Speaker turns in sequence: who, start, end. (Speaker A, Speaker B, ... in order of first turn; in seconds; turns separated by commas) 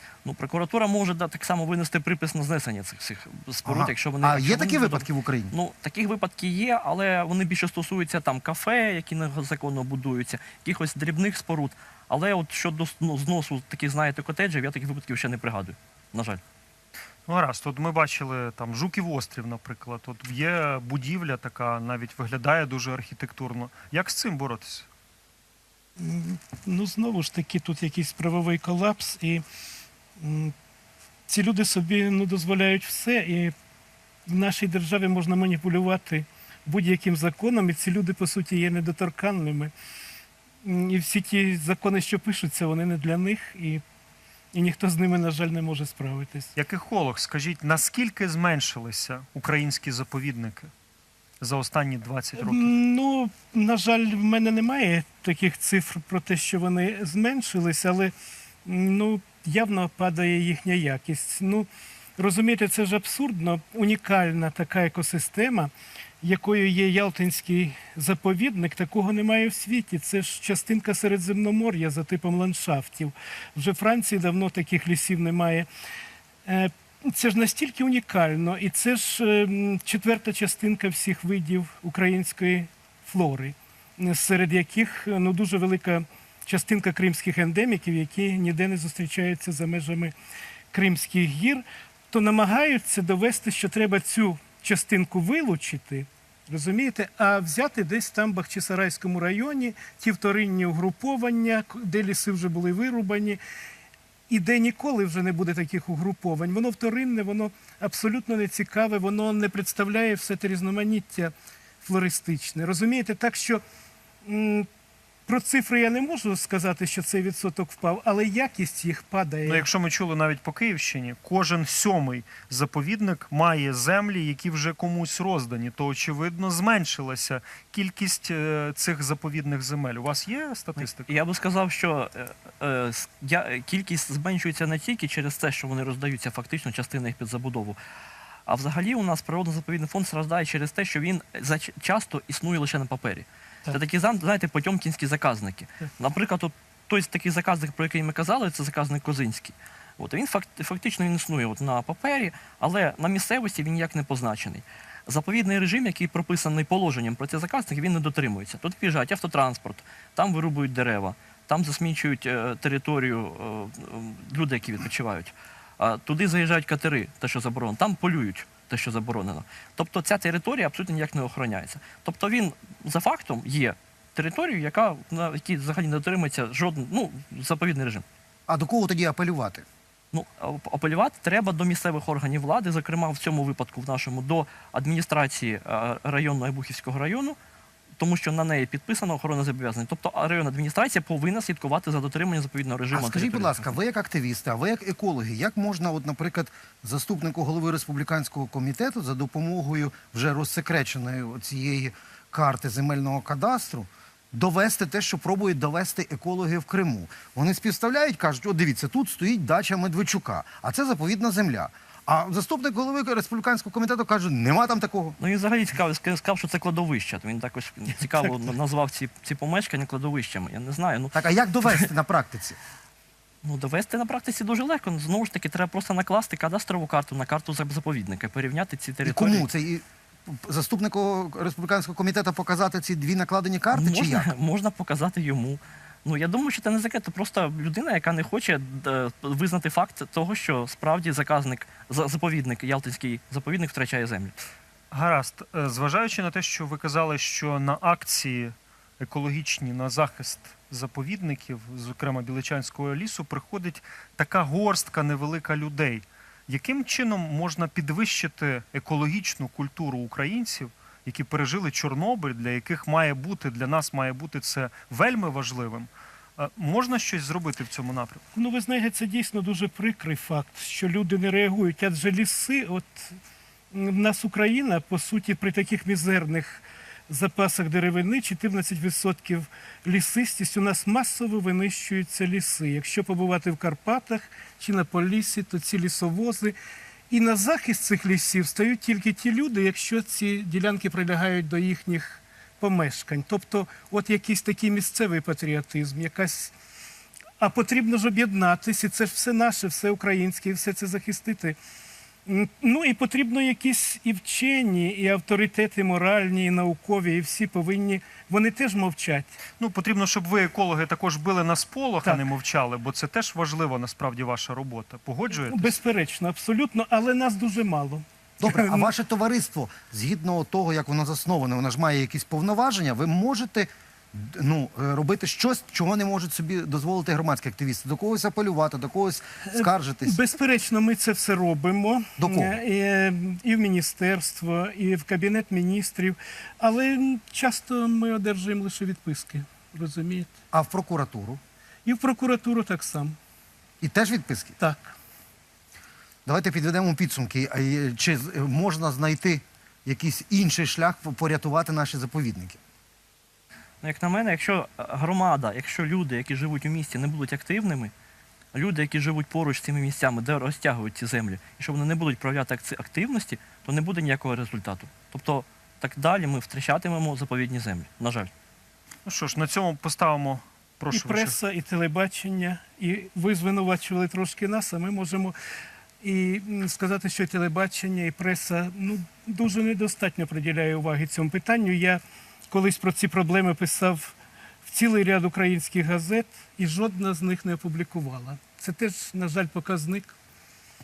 Speaker A: 0.2-16.4, Speaker B: 3.6-5.5, Speaker C: 17.2-24.9, Speaker D: 26.0-29.4, Speaker D: 30.2-30.5, Speaker D: 31.3-33.5, Speaker D: 34.2-39.7, Speaker D: 40.6-43.8, Speaker D: 44.5-46.5, Speaker C: 46.5-50.7, Speaker C: 51.4-52.7, Speaker D: 52.4-58.1, Speaker D: 58.6-75.7, Speaker D: 76.5-90.1, Speaker D: 90.7-103.4, Speaker D: 104.3-113.6, Speaker D: 114.2-114.7, Speaker D: 115.3-119.6, Speaker C: 119.4-131.1, Speaker A: 130.8-137.8, Speaker A: 138.5-178.0, Speaker B: 178.5-179.6, Speaker A: 180.1-187.4, Speaker A: 188.0-193.8, Speaker B: 192.9-215.2, Speaker A: 215.2-221.2, Speaker B: 221.1-222.6, Speaker A: 223.4-229.5, Speaker B: 229.0-234.3, Speaker A: 233.7-244.4, Speaker C: 244.9-268.2, Speaker D: 268.3-273.2, Speaker D: 273.7-286.6, Speaker D: 287.1-296.5, Speaker D: 297.4-301.6, Speaker D: 302.2-309.3, Speaker C: 309.6-315.8, Speaker D: 315.3-318.9, Speaker B: 318.4-330.2, Speaker D: 329.5-340.3, Speaker B: 332.2-332.6, Speaker B: 340.5-341.4, Speaker D: 341.8-343.1, Speaker B: 343.8-344.6, Speaker D: 344.6-344.9, Speaker B: 346.2-352.6, Speaker A: 353.8-357.9, Speaker A: 358.5-368.3, Speaker C: 369.1-371.4, Speaker D: 370.9-375.4, Speaker D: 376.0-390.1